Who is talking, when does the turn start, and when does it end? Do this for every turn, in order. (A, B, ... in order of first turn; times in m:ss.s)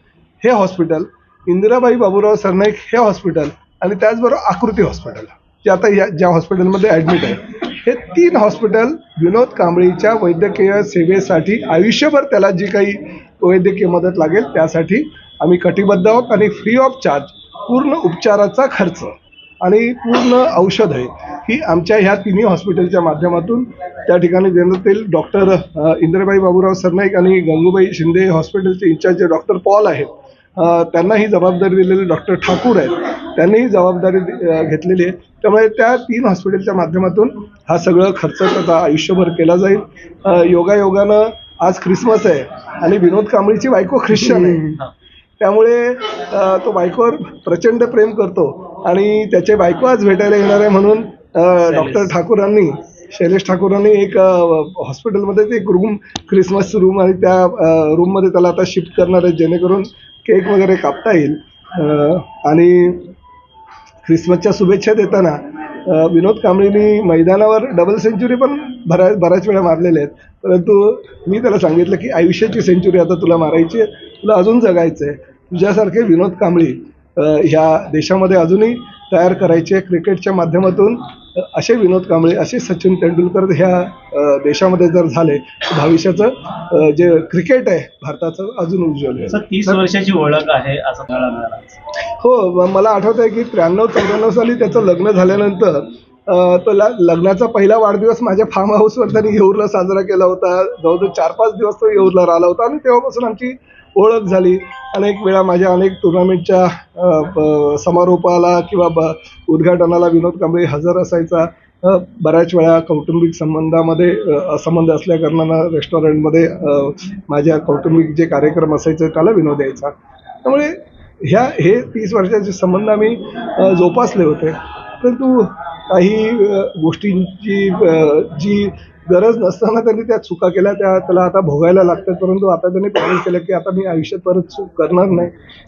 0:00.4-0:44.7 A
0:44.6-0:44.9 B
0:45.4-1:03.1 A
0:51.7-0:52.0 B
1:04.0-1:29.8 A
1:29.3-1:31.8 B
1:32.2-1:59.9 A
2:00.4-2:15.3 A